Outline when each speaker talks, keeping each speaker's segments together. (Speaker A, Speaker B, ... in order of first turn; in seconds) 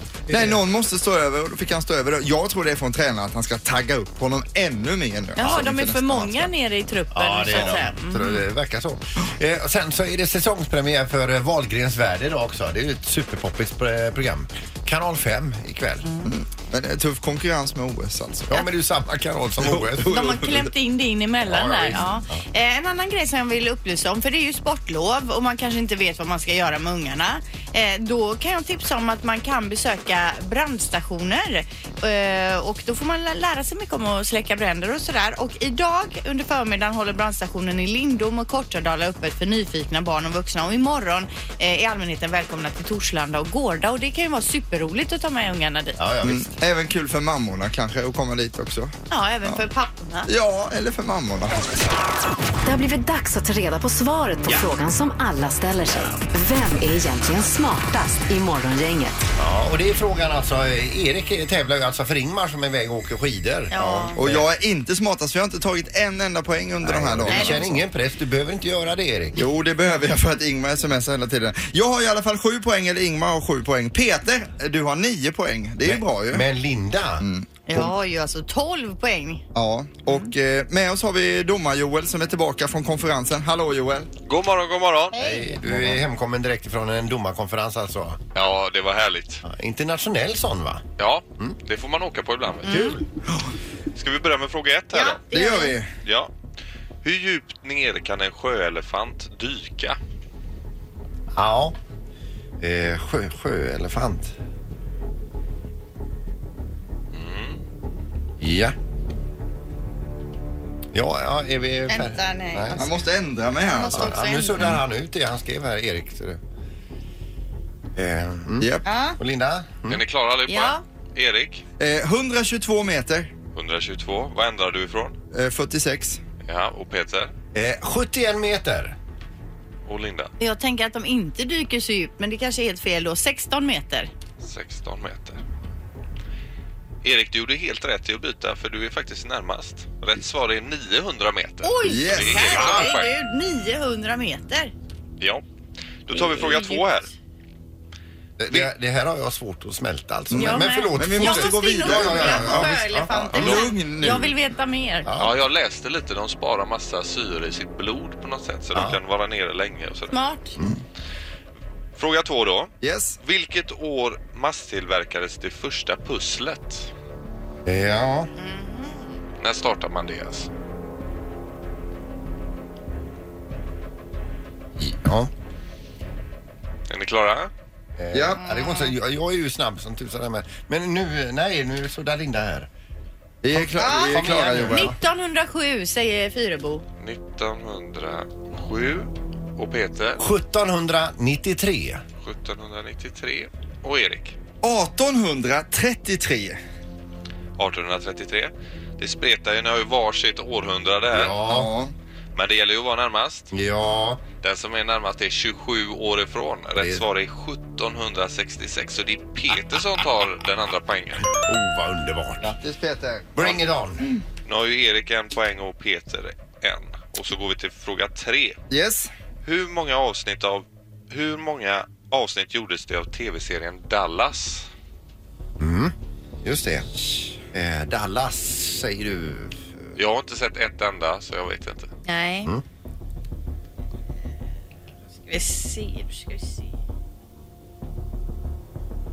Speaker A: 0.3-0.6, 5.4-5.7, 7.1-16.1, 18.5-20.6, 21.4-22.4, 46.0-46.6, 59.4-64.4, 66.8-69.4, 75.8-77.2, 85.1-88.2, 89.4-90.8, 92.7-93.0, 101.3-101.8, 102.6-104.3, 108.4-108.8, 110.9-112.9, 113.9-116.4, 118.0-120.0, 127.5-128.9, 142.5-142.9, 148.4-153.6, 155.0-155.4, 158.7-159.0, 167.7-168.3, 174.8-175.3, 178.0-182.7, 183.5-185.0, 190.2-192.0, 201.1-201.7, 203.5-204.2, 206.8-207.0, 211.3-212.5, 213.3-214.1, 225.6-229.6
Speaker B: 0.3-6.5, 7.5-7.8, 16.2-18.7, 19.5-20.5, 46.2-48.9, 50.3-51.9, 64.1-67.8, 69.3-76.5, 77.2-77.8, 79.5-84.1, 95.3-95.9, 112.8-114.1, 118.6-118.9, 121.8-123.3, 125.3-126.2, 141.8-142.6, 150.3-154.3, 162.8-163.2, 178.1-178.4, 183.4-184.9, 194.6-196.6, 201.4-201.9, 212.4-213.6, 218.7-219.1
Speaker C: 5.3-8.4, 16.0-16.3, 20.1-46.0, 49.1-50.3, 63.7-64.2, 67.3-67.7, 77.7-79.4, 85.1-85.6, 92.7-93.0, 94.9-95.8, 111.9-112.9, 113.6-114.7, 118.8-119.2, 120.5-120.8, 130.4-134.1, 141.6-144.7, 146.1-147.0, 150.3-155.1, 160.1-160.5, 168.4-169.1, 178.4-178.9, 183.8-186.8, 232.1-232.5, 235.2-236.7
Speaker D: 52.6-59.2
Speaker E: 84.2-85.2, 88.3-89.4, 91.0-92.9, 93.9-95.2, 96.0-96.3, 97.0-100.0, 107.1-107.6, 119.9-121.6, 123.5-125.2, 126.4-127.3, 129.8-130.3, 134.4-135.4, 137.0-143.1, 146.1-147.1, 155.2-160.2, 161.9-166.9, 169.4-170.5, 176.9-177.5, 187.0-190.2, 192.2-194.3, 197.6-201.3, 202.3-203.5, 204.4-211.3, 214.4-218.6, 219.4-224.7, 229.9-231.9